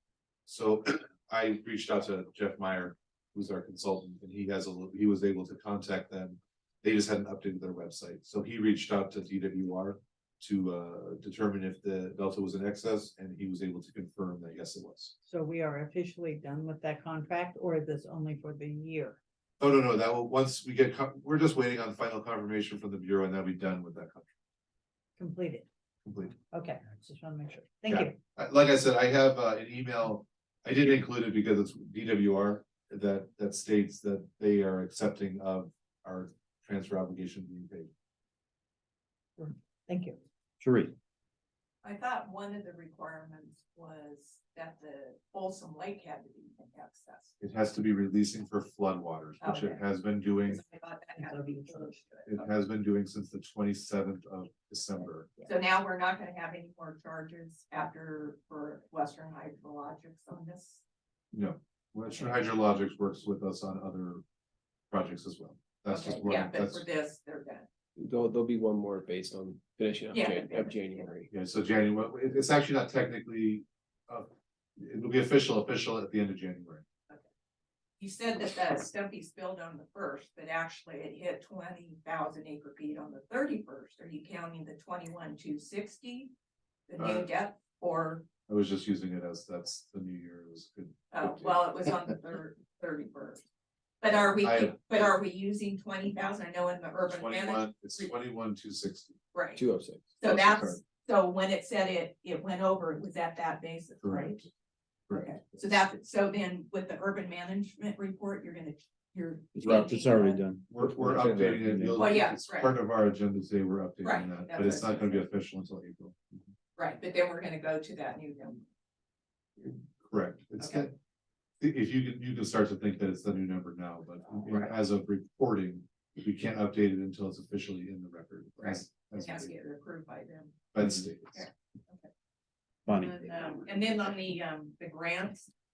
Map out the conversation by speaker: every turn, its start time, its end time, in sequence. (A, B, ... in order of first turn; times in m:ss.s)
0:00.5-0:15.1 A
0:15.2-0:19.2 B
0:19.6-0:24.3 A
0:25.2-0:25.6 B
0:26.0-0:26.4 A
0:26.5-0:28.1 B
0:27.9-0:37.9 A
0:39.4-0:40.2 B
0:40.6-0:40.9 C
0:41.8-0:47.3 D
0:47.4-0:50.6 A
0:49.4-0:49.8 D
0:50.4-0:52.5 D
0:51.2-0:52.0 B
0:52.2-0:55.3 A
0:55.4-1:00.8 D
1:01.3-1:04.2 A
1:04.9-1:06.8 A
1:05.9-1:07.7 D
1:08.0-1:11.3 E
1:10.1-1:11.1 D
1:11.3-1:16.8 A
1:18.0-1:26.3 D
1:26.9-1:28.3 D
1:27.0-1:27.3 A
1:28.5-1:31.6 A
1:31.1-1:33.4 D
1:34.0-1:38.1 D
1:34.1-1:35.1 A
1:37.0-1:39.2 A
1:39.3-1:39.6 D
1:39.6-1:40.7 E
1:40.2-1:44.4 D
1:44.0-1:44.4 A
1:45.1-1:45.6 A
1:45.1-1:50.4 D
1:49.5-1:52.0 C
1:50.7-1:56.2 A
1:51.9-1:52.8 D
1:54.0-1:55.2 D
1:56.8-1:58.7 D
1:59.6-2:00.9 A
2:00.6-2:00.8 D
2:01.6-2:09.5 A
2:04.5-2:04.7 D
2:08.6-2:10.6 D
2:10.7-2:11.4 A
2:11.3-2:12.1 D
2:12.8-2:13.2 C
2:12.9-2:15.5 D